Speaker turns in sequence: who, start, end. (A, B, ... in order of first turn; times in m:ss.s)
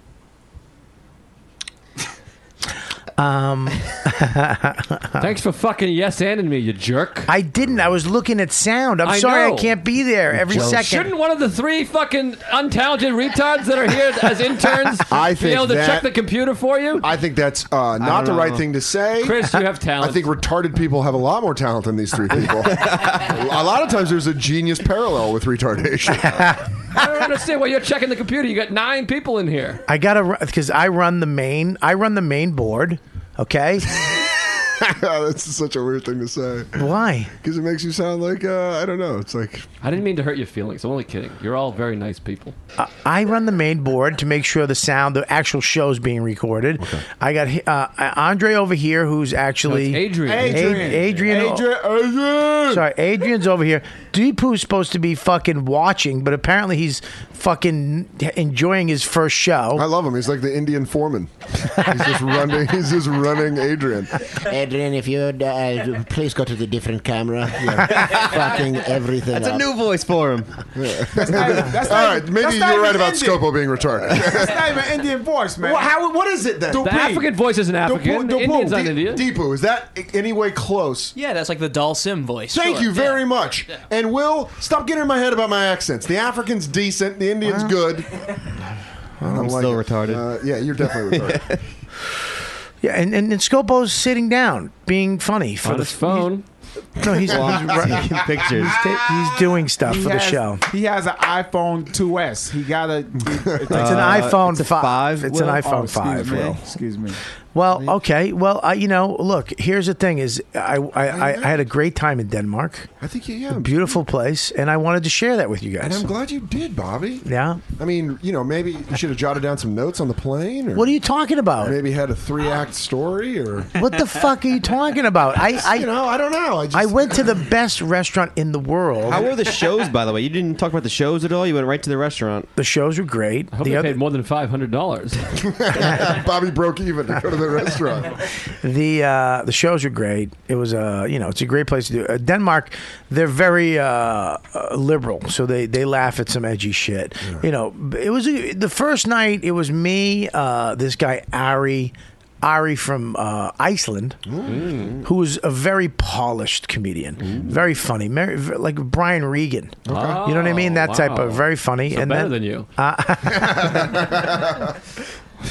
0:03.2-0:05.3 A
0:05.2-0:07.3 B
0:07.3-0:11.1 A
0:09.0-0:09.8 B
0:10.5-0:17.1 B
0:15.1-0:16.1 C
0:17.0-0:19.4 C
0:18.0-0:18.6 D
0:19.2-0:20.2 B
0:20.0-0:26.5 C
0:22.7-0:23.2 D
0:26.3-0:26.6 A
0:26.9-0:29.8 B
0:29.9-0:33.9 A
0:34.0-0:39.6 C
0:36.8-0:37.3 A
0:39.8-0:42.5 B
0:42.8-0:51.7 A
0:49.6-0:51.2 B
0:50.2-0:52.8 E
0:52.7-0:59.8 A
0:59.7-1:04.4 C
1:04.5-1:09.7 F
1:07.6-1:08.3 C
1:09.3-1:10.6 D
1:10.8-1:14.6 C
1:11.2-1:13.5 E
1:14.1-1:15.9 E
1:15.6-1:16.8 F
1:16.6-1:17.2 C
1:16.7-1:17.2 E
1:16.7-1:19.2 B
1:17.8-1:18.7 E
1:18.6-1:21.1 C
1:21.1-1:23.2 G
1:22.5-1:28.1 C
1:27.4-1:27.7 A
1:29.2-1:29.5 A
1:29.2-1:31.6 C
1:29.3-1:30.3 D
1:31.1-1:31.6 D
1:32.8-1:36.3 A
1:35.6-1:36.4 B
1:37.0-1:40.6 A
1:37.0-1:37.8 C
1:37.2-1:38.8 D
1:39.8-1:44.2 E
1:43.7-1:46.6 D
1:43.7-1:46.6 A
1:45.6-1:47.2 E
1:47.5-1:52.9 A
1:51.1-1:51.6 C
1:53.0-1:54.0 C
1:53.5-1:56.1 A
1:55.8-2:00.9 C
1:57.2-1:57.6 A
2:00.7-2:01.8 A
2:01.6-2:03.7 C
2:03.7-2:05.9 A
2:05.6-2:07.3 C
2:06.7-2:09.3 A
2:09.0-2:12.5 D
2:12.6-2:14.0 A
2:13.5-2:15.2 B
2:15.4-2:18.1 C
2:15.7-2:16.1 A
2:18.6-2:34.2 A
2:34.3-2:34.6 C
2:34.4-2:34.9 B
2:35.0-2:44.1 A
2:39.8-2:40.2 C
2:39.9-2:42.7 B
2:43.3-2:44.5 C